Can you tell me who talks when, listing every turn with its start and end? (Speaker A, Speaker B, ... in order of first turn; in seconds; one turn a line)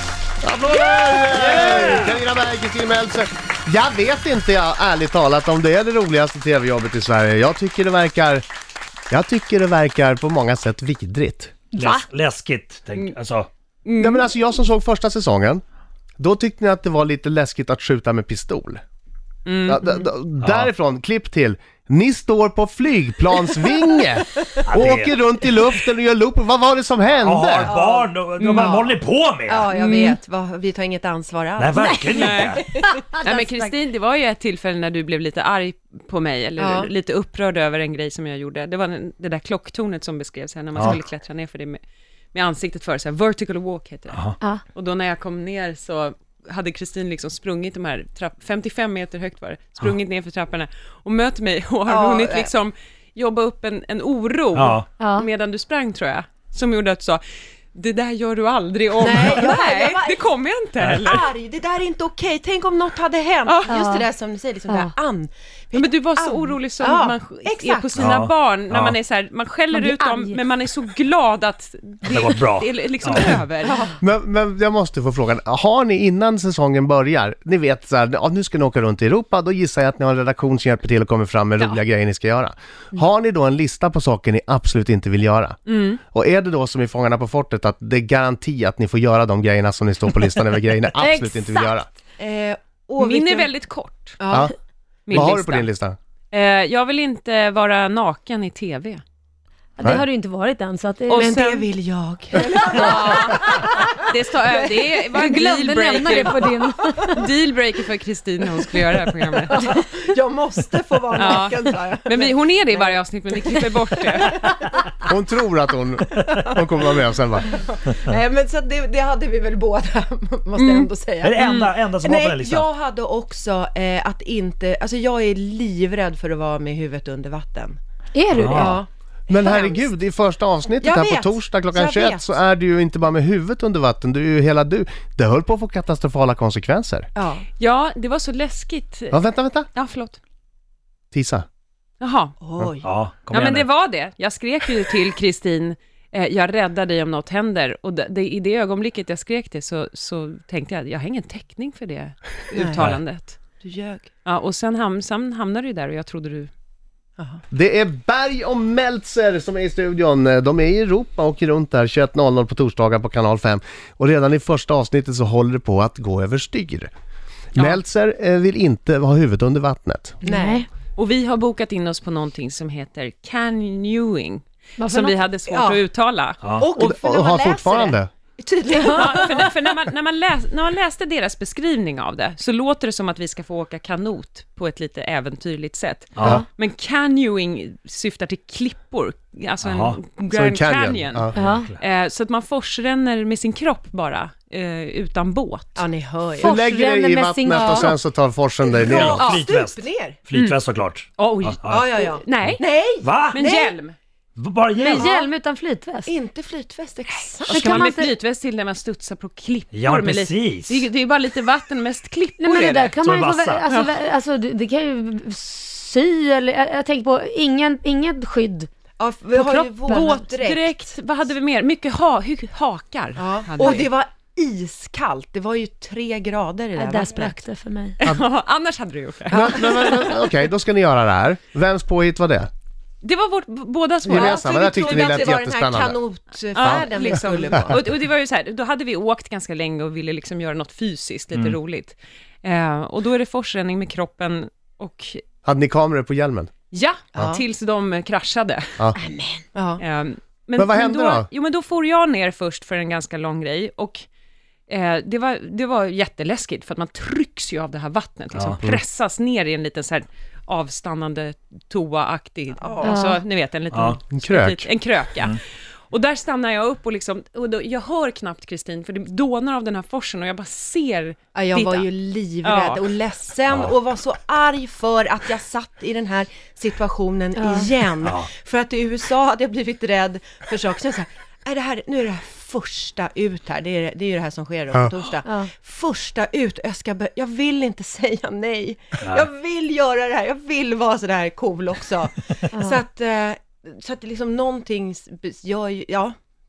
Speaker A: 0.4-8.4
Speaker B: 1.0-2.2
Speaker A: 9.1-11.5
Speaker B: 11.7-13.5
Speaker C: 11.8-12.1
Speaker D: 13.8-14.3
Speaker A: 14.0-15.6
Speaker A: 16.2-18.8
Speaker D: 19.4-20.1
Speaker A: 19.7-27.7
Speaker B: 20.4-20.7
Speaker B: 24.7-25.2
Speaker B: 27.1-29.7
Speaker E: 27.6-33.7
Speaker D: 28.4-28.8
Speaker D: 29.7-30.2
Speaker B: 31.6-32.7
Speaker D: 32.0-32.6
Speaker D: 33.2-41.8
Speaker E: 36.6-36.9
Speaker D: 42.3-57.2
Speaker B: 44.1-44.4
Speaker E: 51.9-52.5
Speaker B: 54.5-54.9
Speaker C: 55.0-55.3
Speaker D: 57.7-61.2
Speaker E: 59.0-60.3
Speaker B: 60.8-61.2
Speaker E: 60.9-68.0
Speaker D: 63.5-63.8
Speaker C: 63.7-64.1
Speaker D: 65.7-73.9
Speaker B: 68.0-69.0
Speaker C: 69.7-70.4
Speaker B: 72.1-73.4
Speaker E: 73.6-74.0
Speaker A: 74.0-91.9
Speaker D: 85.7-86.0
Speaker C: 91.0-91.8
Speaker E: 92.2-93.5
Speaker D: 93.0-94.2
Speaker E: 94.2-94.5
Speaker D: 95.1-95.7
Speaker A: 95.1-96.0
Speaker E: 95.1-95.4
Speaker D: 96.3-99.0
Speaker C: 99.8-101.5
Speaker D: 101.1-101.7
Speaker E: 101.2-103.6
Speaker D: 102.6-109.6
Speaker C: 103.4-103.8
Speaker E: 104.4-105.0
Speaker C: 105.1-107.2
Speaker E: 109.5-114.8
Speaker D: 111.2-114.4
Speaker A: 115.0-117.5
Speaker E: 116.1-127.8
Speaker D: 120.6-120.8
Speaker B: 121.2-122.7
Speaker D: 121.4-121.7
Speaker C: 128.1-128.6
Speaker B: 128.3-128.8
Speaker E: 128.4-129.9
Speaker A: 129.3-137.1
Speaker E: 130.8-132.4
Speaker E: 137.1-137.4
Speaker D: 137.6-139.2
Speaker A: 139.1-139.7
Speaker D: 139.7-140.2
Speaker A: 141.1-141.4
Speaker D: 142.0-142.4
Speaker E: 142.4-142.9
Speaker B: 142.8-143.7
Speaker D: 143.3-153.4
Speaker E: 152.5-152.9
Speaker E: 153.6-154.1
Speaker D: 154.2-156.5
Speaker A: 157.5-166.9
Speaker A: 167.5-170.2
Speaker D: 167.6-167.8
Speaker E: 170.2-170.6
Speaker C: 170.2-170.7
Speaker D: 170.9-176.5
Speaker C: 174.8-175.2
Speaker E: 175.5-175.8
Speaker B: 176.4-176.7
Speaker E: 176.6-179.5
Speaker A: 176.7-178.1
Speaker D: 178.8-195.8
Speaker B: 186.2-186.4
Speaker B: 189.6-190.0
Speaker A: 190.3-191.3
Speaker B: 191.3-191.8
Speaker C: 191.4-191.7
Speaker E: 195.8-196.6
Speaker C: 196.4-197.9
Speaker A: 196.4-199.3
Speaker E: 197.5-197.9
Speaker E: 198.6-200.2
Speaker B: 198.8-203.4
Speaker D: 200.3-200.6
Speaker D: 201.2-202.6
Speaker E: 201.6-203.8
Speaker D: 203.2-203.9
Speaker B: 204.4-205.1
Speaker C: 204.8-206.1
Speaker D: 204.8-205.1
Speaker E: 204.9-205.2
Speaker E: 206.1-207.9
Speaker D: 207.1-213.0
Speaker C: 207.5-208.2
Speaker B: 209.7-210.8
Speaker C: 212.4-218.7
Speaker B: 213.0-213.7
Speaker D: 213.6-214.0
Speaker E: 219.0-220.9
Speaker C: 219.3-220.3
Speaker D: 219.4-223.9
Speaker E: 223.2-227.3
Speaker C: 226.8-228.0
Speaker D: 228.0-230.2
Speaker E: 229.3-230.0
Speaker A: 229.3-232.5
Speaker D: 233.0-235.3
Speaker A: 234.0-236.0
Speaker E: 234.1-237.8
Speaker D: 236.5-245.2
Speaker A: 236.6-237.0
Speaker A: 245.4-246.5
Speaker D: 246.7-248.9
Speaker E: 249.0-249.8
Speaker D: 249.8-254.0
Speaker A: 250.6-251.3
Speaker D: 254.7-265.4
Speaker E: 262.6-262.9
Speaker C: 262.8-263.2
Speaker B: 263.7-264.0
Speaker A: 264.1-264.7
Speaker D: 265.9-271.9
Speaker E: 271.3-296.1
Speaker D: 272.4-272.9
Speaker B: 273.5-273.7
Speaker C: 277.4-277.7
Speaker B: 278.0-278.3
Speaker B: 289.0-289.3
Speaker C: 292.5-292.8